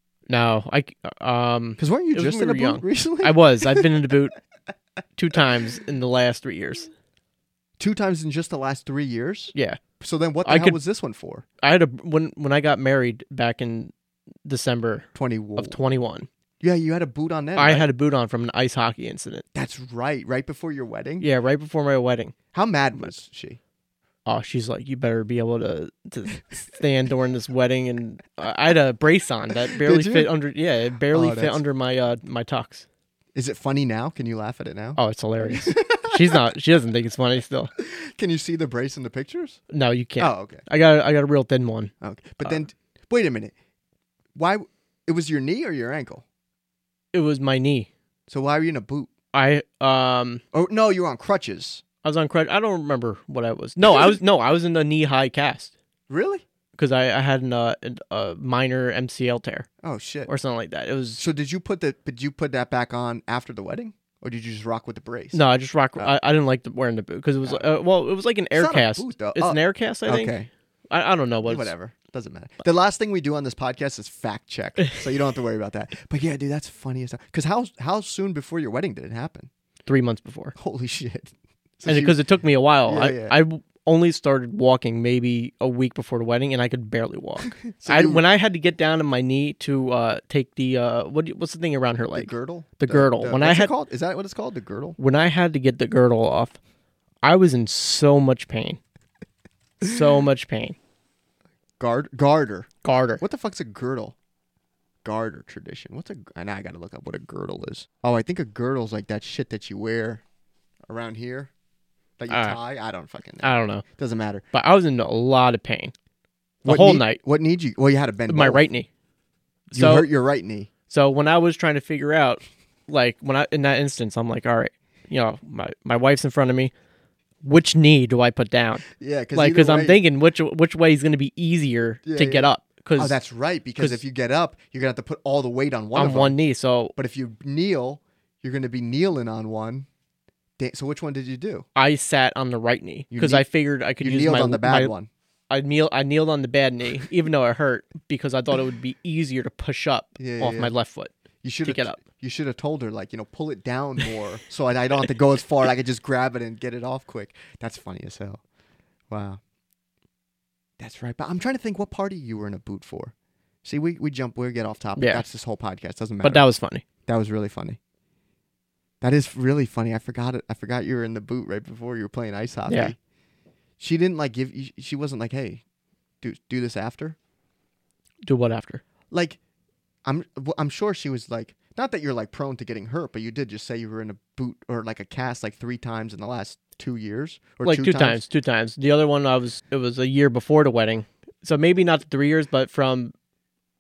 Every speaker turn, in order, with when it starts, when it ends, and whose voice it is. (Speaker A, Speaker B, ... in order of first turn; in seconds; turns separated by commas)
Speaker A: 0.3-4.4, Speaker B: 1.8-3.9, Speaker A: 5.2-6.9, Speaker B: 7.8-11.4, Speaker A: 9.6-9.8, Speaker A: 10.4-10.8, Speaker A: 11.6-13.9, Speaker A: 14.4-16.3, Speaker B: 15.2-15.8, Speaker B: 16.6-17.9, Speaker A: 17.6-19.4, Speaker B: 19.6-21.3, Speaker A: 21.2-22.4, Speaker B: 22.5-23.6, Speaker A: 24.3-32.9, Speaker B: 29.8-30.3, Speaker B: 31.1-31.6, Speaker B: 33.4-36.4, Speaker A: 35.0-37.7, Speaker B: 37.8-39.6, Speaker A: 39.7-41.9, Speaker B: 40.2-40.6, Speaker B: 42.0-43.5, Speaker B: 44.4-46.2, Speaker A: 47.1-47.9, Speaker B: 48.3-49.1, Speaker A: 49.3-50.4, Speaker B: 50.5-51.8, Speaker A: 52.0-55.7, Speaker B: 56.1-56.4, Speaker A: 56.8-59.7, Speaker B: 59.8-60.3, Speaker A: 60.3-61.2, Speaker B: 61.2-65.4, Speaker A: 65.3-70.3, Speaker B: 68.5-70.5, Speaker A: 70.9-71.7, Speaker B: 71.5-79.5, Speaker A: 79.9-80.5, Speaker B: 80.6-82.2, Speaker A: 81.9-93.7, Speaker B: 82.9-83.4, Speaker B: 87.7-88.2, Speaker B: 92.1-95.0, Speaker A: 95.0-96.6, Speaker A: 97.2-98.8, Speaker A: 99.8-100.8, Speaker B: 101.8-102.7, Speaker A: 102.8-103.2, Speaker B: 103.2-104.2, Speaker B: 105.0-110.2, Speaker B: 110.9-111.5, Speaker B: 112.2-114.4, Speaker A: 112.3-112.6, Speaker A: 113.4-113.8, Speaker A: 114.5-115.9, Speaker A: 116.7-117.2, Speaker B: 116.7-118.7, Speaker A: 118.3-118.9, Speaker A: 119.7-120.1, Speaker B: 119.7-120.7, Speaker A: 120.9-126.7, Speaker A: 127.4-133.2, Speaker B: 128.9-130.0, Speaker B: 132.0-136.4, Speaker A: 135.9-136.9, Speaker B: 137.0-139.9, Speaker B: 140.6-141.7, Speaker A: 141.8-144.9, Speaker B: 143.1-143.5, Speaker B: 144.0-145.1, Speaker A: 145.5-151.1, Speaker B: 150.2-150.7, Speaker B: 151.4-158.4, Speaker A: 151.7-152.0, Speaker B: 159.1-159.4, Speaker B: 160.8-163.1, Speaker B: 163.6-166.4, Speaker A: 165.0-165.2, Speaker A: 166.2-166.8, Speaker B: 167.1-167.8, Speaker B: 169.0-173.0, Speaker A: 172.7-172.9, Speaker B: 173.8-175.6, Speaker B: 176.2-177.2, Speaker A: 178.2-178.8, Speaker B: 179.1-179.4, Speaker B: 180.1-188.2, Speaker A: 187.6-193.1